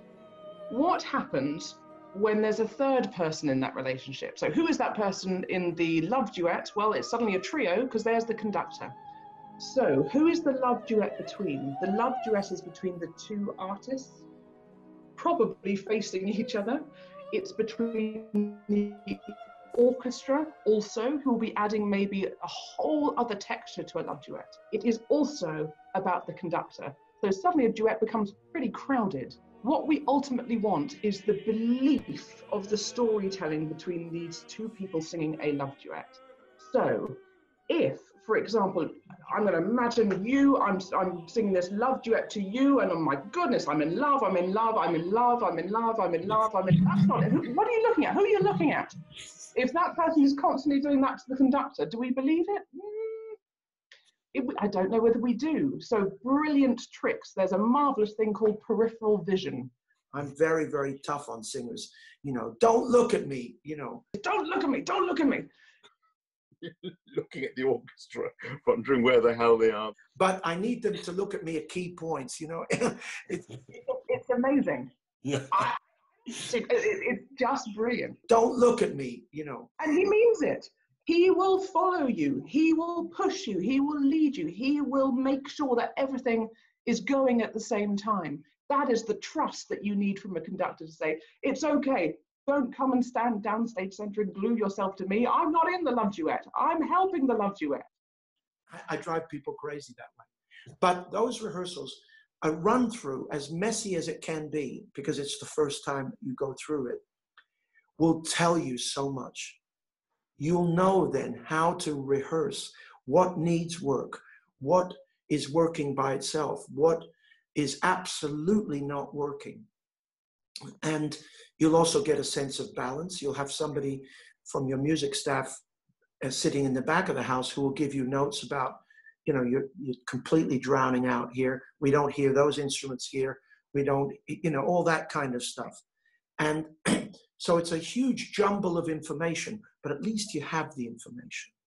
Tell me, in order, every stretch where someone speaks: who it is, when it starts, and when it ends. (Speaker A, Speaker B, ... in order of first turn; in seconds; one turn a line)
Speaker A: 0.7-8.9
Speaker A: 9.6-14.2
Speaker A: 15.2-53.4
Speaker A: 54.3-59.7
Speaker B: 60.1-64.1
Speaker A: 64.2-65.5
Speaker C: 66.6-70.0
Speaker B: 70.2-73.5
Speaker A: 73.7-74.9
Speaker A: 75.5-75.8
Speaker A: 76.3-78.2
Speaker B: 78.3-79.8
Speaker A: 79.8-97.9
Speaker B: 98.7-107.0
Speaker B: 108.0-109.6
Speaker B: 110.4-119.7
Speaker B: 120.8-125.6
Speaker B: 126.2-135.8
Speaker B: 136.4-141.5